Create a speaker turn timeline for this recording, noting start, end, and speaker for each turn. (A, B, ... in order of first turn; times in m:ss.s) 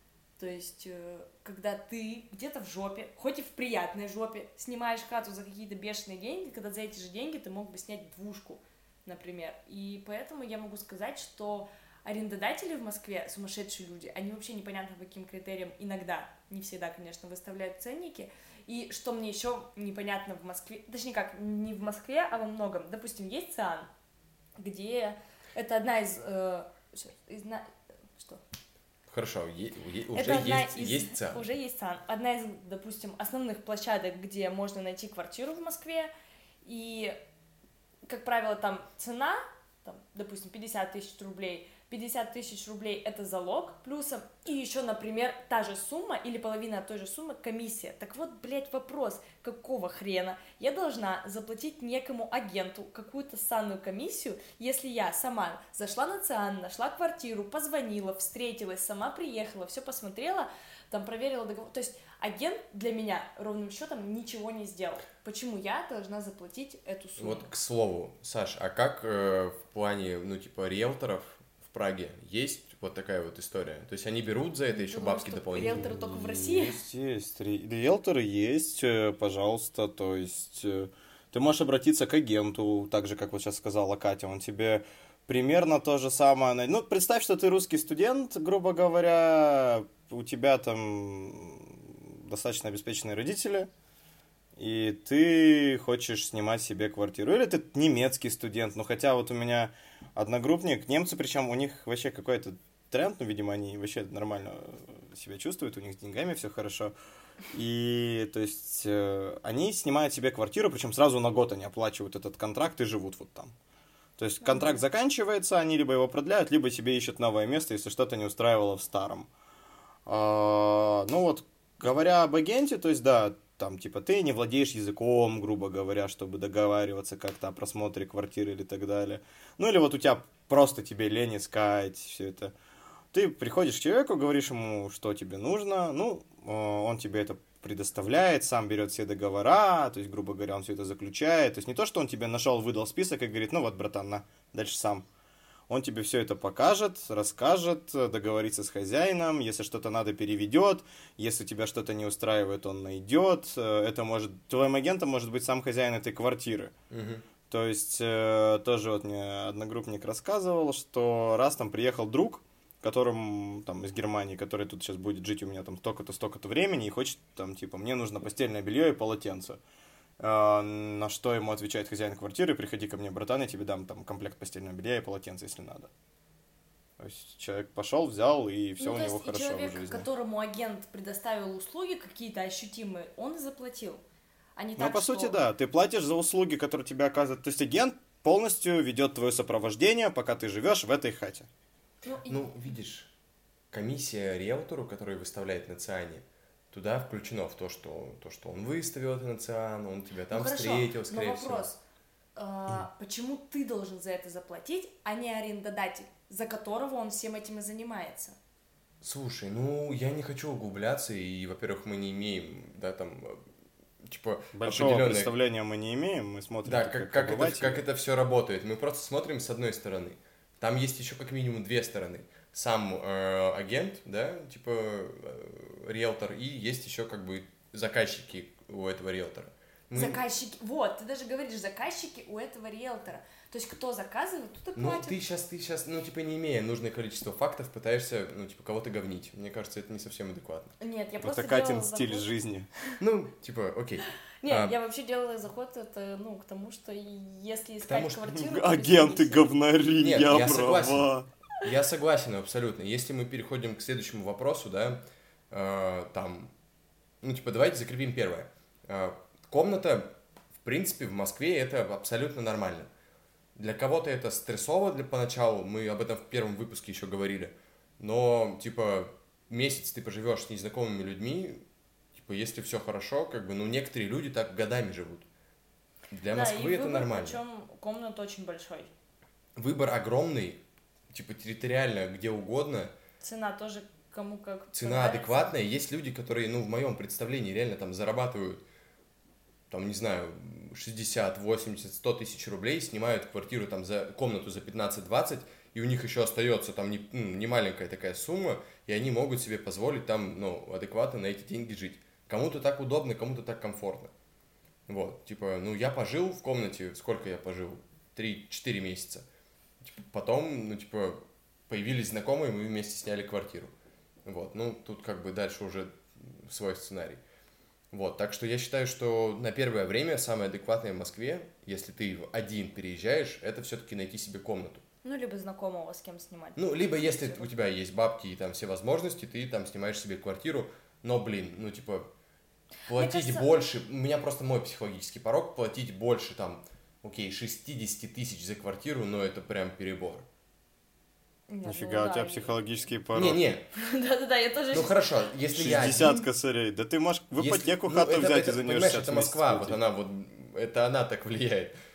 0:00.4-0:23.9 A
0:24.6-0:28.4 A
0:29.1-0:31.4 B
0:30.1-0:36.1 A
0:36.6-0:37.2 A
0:38.1-1:07.5 A
1:07.2-1:16.0 B
1:14.7-1:16.8 A
1:15.7-1:33.7 C
1:34.6-1:46.9 C
1:47.5-1:53.5 C
1:54.2-1:59.3 C
1:54.4-1:54.8 A
2:00.1-2:12.5 C
2:13.1-2:25.1 C
2:25.7-2:36.7 C
2:36.9-2:37.2 B
2:37.5-2:49.6 C
2:50.2-2:55.9 C
2:57.0-3:00.0 C
2:58.8-3:04.0 A
3:04.6-3:05.4 A
3:04.8-3:11.5 C
3:12.0-3:12.5 A
3:12.3-3:13.1 B
3:13.7-3:21.7 B
3:20.3-3:21.8 A
3:22.4-3:28.4 A
3:29.0-3:33.4 B
3:34.0-3:35.3 B
3:34.5-3:37.8 C
3:36.6-3:50.2 B
3:49.9-3:55.2 A
3:54.8-4:00.7 B
4:00.8-4:02.3 A
4:01.2-4:02.7 C
4:03.0-4:04.8 B
4:04.4-4:09.6 A
4:07.8-4:08.3 B
4:08.3-4:11.3 C
4:10.0-4:11.1 B
4:11.6-4:16.5 B
4:17.2-4:22.9 B
4:23.6-4:35.3 B
4:36.1-4:37.4 B
4:36.3-4:38.9 A
4:39.6-4:42.9 B
4:43.2-4:45.6 A
4:44.7-4:48.7 B
4:49.7-5:04.1 B
5:04.9-5:09.2 B
5:09.8-5:13.7 B
5:14.2-5:17.2 B
5:17.9-5:24.8 B
5:25.0-5:27.5 A
5:26.6-5:32.1 B
5:32.9-5:40.3 B
5:32.9-5:33.5 A
5:41.5-5:42.6 A
5:41.6-5:43.4 C
5:43.2-5:43.7 B
5:43.7-5:45.0 A
5:44.7-5:46.3 B
5:45.6-5:49.8 C
5:47.4-5:51.8 B